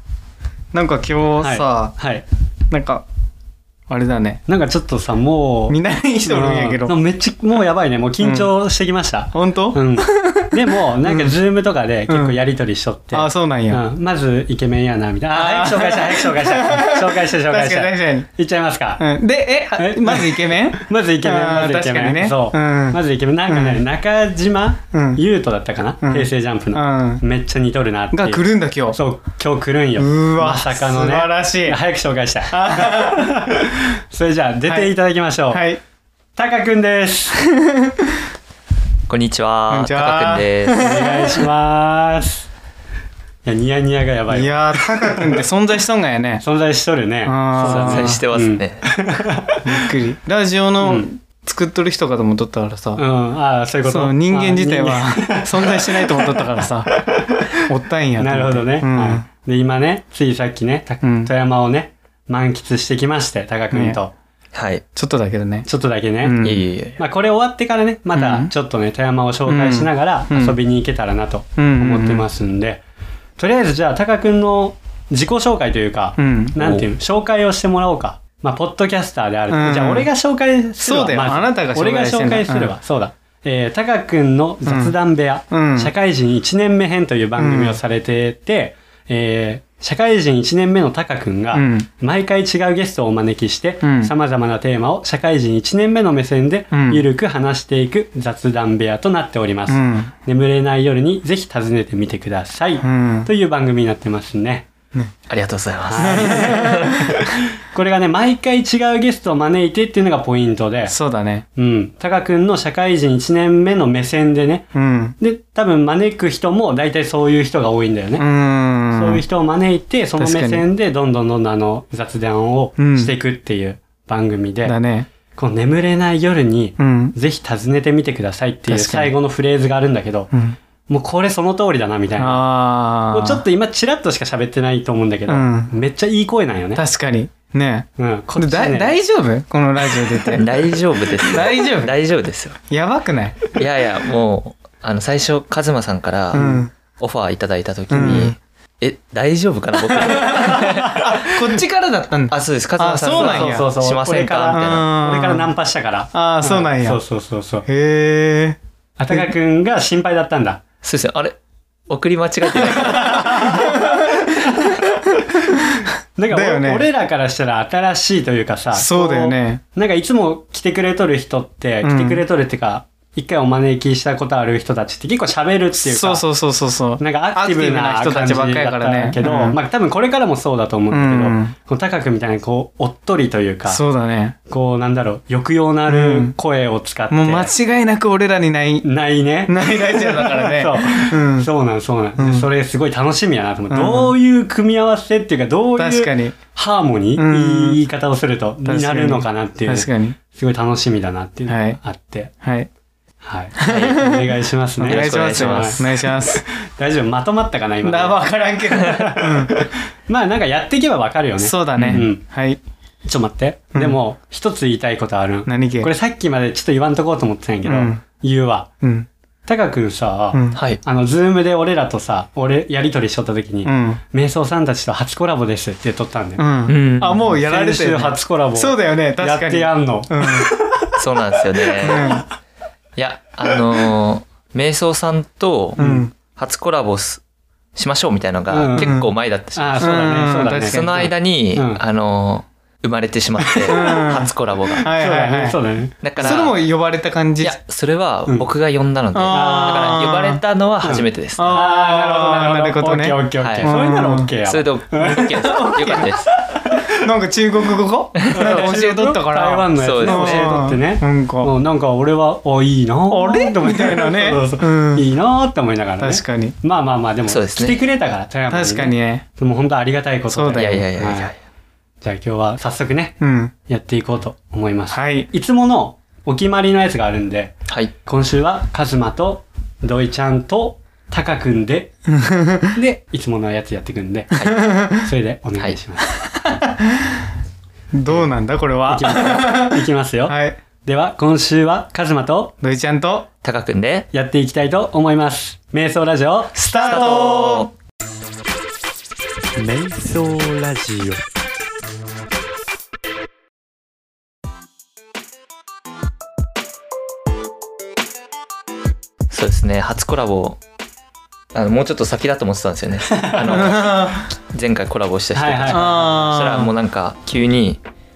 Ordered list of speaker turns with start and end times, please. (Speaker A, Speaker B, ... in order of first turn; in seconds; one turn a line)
Speaker A: 0.7-1.9
Speaker B: 1.4-2.2
Speaker A: 2.7-3.0
Speaker A: 3.9-4.4
Speaker B: 4.5-19.1
Speaker A: 5.7-7.0
Speaker A: 8.2-8.5
Speaker A: 9.3-11.4
Speaker A: 12.1-12.4
Speaker A: 13.1-13.8
Speaker A: 15.3-18.3
Speaker A: 19.0-23.8
Speaker B: 19.8-35.6
Speaker A: 24.9-25.2
Speaker A: 26.0-27.2
Speaker A: 28.1-29.0
Speaker A: 30.0-31.8
Speaker A: 32.5-33.6
Speaker A: 34.7-34.9
Speaker A: 35.5-35.8
Speaker B: 36.4-37.4
Speaker A: 37.5-38.2
Speaker C: 39.1-40.9
Speaker A: 39.7-41.5
Speaker B: 40.7-42.5
Speaker B: 43.4-45.4
Speaker A: 44.3-46.4
Speaker B: 46.4-49.9
Speaker A: 47.2-48.2
Speaker C: 47.6-49.2
Speaker A: 49.6-53.0
Speaker B: 50.8-51.1
Speaker B: 53.0-57.6
Speaker A: 53.9-59.2
Speaker B: 58.2-64.1
Speaker A: 61.0-61.3
Speaker A: 63.7-64.0
Speaker C: 64.5-64.8
Speaker A: 64.9-65.7
Speaker B: 65.7-66.4
Speaker A: 66.2-66.6
Speaker C: 66.4-67.0
Speaker B: 67.0-72.8
Speaker A: 68.1-68.5
Speaker A: 69.5-70.6
Speaker A: 71.6-72.2
Speaker B: 73.4-104.7
Speaker A: 76.2-76.6
Speaker C: 76.6-76.8
Speaker A: 79.5-80.1
Speaker A: 80.8-82.7
Speaker A: 84.7-85.0
Speaker A: 85.5-85.9
Speaker A: 87.4-87.8
Speaker A: 91.5-91.9
Speaker A: 93.8-94.1
Speaker A: 96.7-97.0
Speaker A: 99.7-100.1
Speaker A: 102.8-103.3
Speaker C: 105.3-107.2
Speaker B: 105.9-110.9
Speaker A: 106.0-107.3
Speaker A: 110.9-111.4
Speaker B: 111.5-118.3
Speaker A: 114.7-115.2
Speaker A: 118.2-119.2
Speaker B: 118.9-124.8
Speaker A: 120.2-120.7
Speaker A: 122.8-123.1
Speaker A: 124.7-125.1
Speaker B: 125.3-130.3
Speaker A: 126.8-127.2
Speaker A: 128.7-129.1
Speaker A: 130.3-130.6
Speaker B: 130.9-132.4
Speaker A: 132.2-133.4
Speaker B: 133.1-136.8
Speaker A: 135.3-135.7
Speaker A: 136.8-141.9
Speaker B: 138.0-138.9
Speaker C: 140.3-142.6
Speaker A: 142.7-143.4
Speaker C: 143.5-151.5
Speaker A: 146.3-146.7
Speaker B: 146.4-146.6
Speaker A: 147.9-148.4
Speaker A: 149.9-153.7
Speaker C: 152.3-154.9
Speaker B: 153.1-157.7
Speaker A: 154.5-155.5
Speaker A: 156.1-157.0
Speaker A: 157.7-158.6
Speaker B: 159.0-160.6
Speaker C: 160.8-161.4
Speaker C: 161.9-163.8
Speaker A: 162.5-166.9
Speaker B: 166.2-176.2
Speaker A: 168.7-169.6
Speaker A: 171.8-172.2
Speaker A: 175.8-179.6
Speaker B: 177.0-183.8
Speaker A: 180.9-181.5
Speaker A: 183.7-184.4
Speaker B: 184.5-187.5
Speaker A: 185.9-186.3
Speaker A: 187.1-188.8
Speaker B: 188.8-202.3
Speaker A: 189.4-191.5
Speaker A: 192.2-192.5
Speaker A: 193.7-194.1
Speaker A: 195.8-196.4
Speaker A: 197.2-197.8
Speaker A: 198.6-200.2
Speaker A: 201.5-201.8
Speaker A: 202.4-202.7
Speaker B: 203.2-212.2
Speaker A: 203.6-206.4
Speaker C: 204.9-205.9
Speaker A: 207.8-209.7
Speaker A: 211.4-212.6
Speaker C: 211.8-212.0
Speaker B: 213.1-218.7
Speaker A: 215.4-215.9
Speaker A: 217.6-218.0
Speaker A: 218.8-219.1
Speaker B: 219.4-226.5
Speaker A: 220.3-220.6
Speaker C: 220.5-220.8
Speaker A: 223.6-224.0
Speaker A: 226.4-230.6
Speaker C: 226.7-227.3
Speaker B: 227.3-231.0
Speaker C: 230.8-232.2
Speaker B: 231.8-232.2
Speaker A: 231.8-232.2
Speaker C: 232.9-237.2
Speaker B: 235.8-236.1
Speaker A: 235.8-236.1
Speaker C: 237.8-244.9
Speaker B: 238.5-239.0
Speaker A: 238.8-239.1
Speaker B: 239.5-241.8
Speaker A: 239.8-241.1
Speaker B: 243.4-244.1
Speaker A: 243.7-245.6
Speaker B: 244.8-246.4
Speaker C: 246.0-246.6
Speaker A: 246.2-247.6
Speaker C: 247.4-251.6
Speaker A: 249.1-250.4
Speaker B: 249.3-250.0
Speaker B: 250.8-256.0
Speaker A: 251.4-254.3
Speaker C: 253.4-253.8
Speaker C: 254.4-256.2
Speaker A: 255.1-256.2
Speaker B: 256.5-257.0
Speaker A: 256.7-261.5
Speaker C: 258.1-258.7
Speaker B: 258.3-271.3
Speaker C: 259.8-260.6
Speaker A: 263.1-265.1
Speaker A: 266.0-266.6
Speaker C: 267.3-267.8
Speaker A: 268.5-269.2
Speaker A: 270.3-270.8
Speaker C: 270.6-271.4
Speaker B: 272.0-281.9
Speaker A: 273.2-273.5
Speaker A: 274.9-275.3
Speaker A: 282.1-282.7
Speaker B: 282.7-284.3
Speaker A: 284.3-285.1
Speaker B: 285.0-286.2
Speaker A: 286.2-287.2
Speaker A: 287.9-290.6
Speaker B: 288.9-292.6
Speaker A: 292.6-293.3
Speaker C: 293.4-294.1
Speaker B: 294.1-297.5
Speaker A: 296.6-297.7
Speaker C: 296.8-297.7
Speaker B: 299.6-301.2
Speaker C: 309.3-310.6
Speaker C: 311.5-317.8
Speaker B: 313.1-313.8
Speaker A: 313.4-314.3
Speaker B: 315.3-316.1
Speaker A: 315.7-316.7